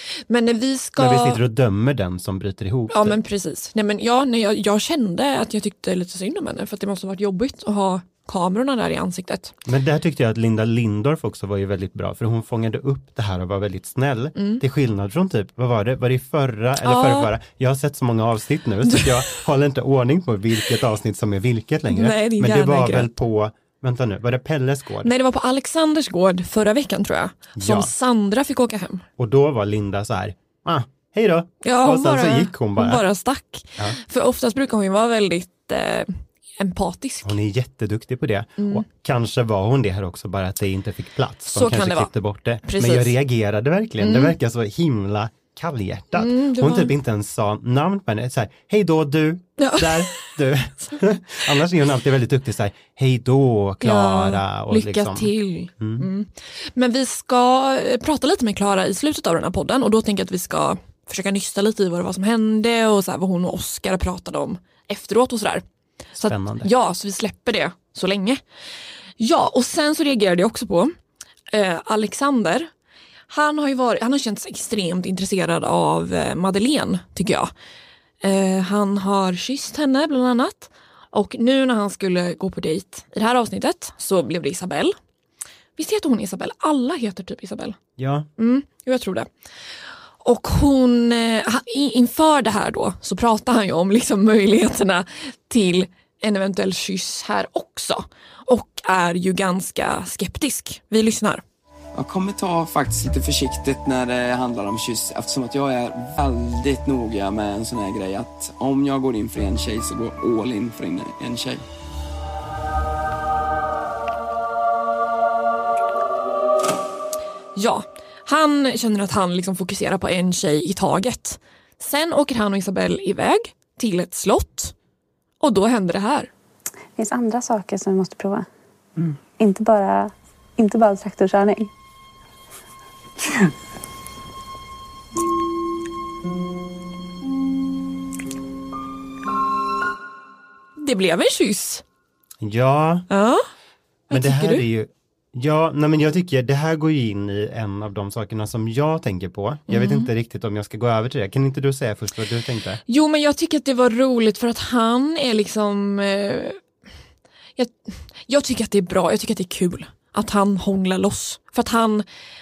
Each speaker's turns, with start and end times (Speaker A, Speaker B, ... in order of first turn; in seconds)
Speaker A: 0.3-1.4, 2.9-9.5, 14.4-14.6, 16.8-17.3, 21.9-23.1, 25.0-29.1, 31.6-37.4, 38.6-38.9, 41.5-43.2, 44.0-44.3, 46.1-46.9, 49.6-50.3, 53.8-65.6, 66.2-68.4, 69.2-70.9, 71.5-72.7, 73.3-77.5, 78.2-85.0, 85.8-87.8, 88.4-89.3, 90.2-101.4, 117.5-124.7, 125.4-126.3, 140.8-141.8, 143.1-143.4, 144.1-144.7, 149.7-150.1, 152.9-156.6, 158.3-162.1
Speaker B: 1.0-3.2, 9.7-25.1, 27.6-27.9, 29.2-33.0, 37.2-56.1, 66.2-66.7, 88.0-88.3, 142.4-143.1, 144.1-152.8
Speaker C: 102.0-111.6
Speaker D: 127.0-128.5, 129.4-131.7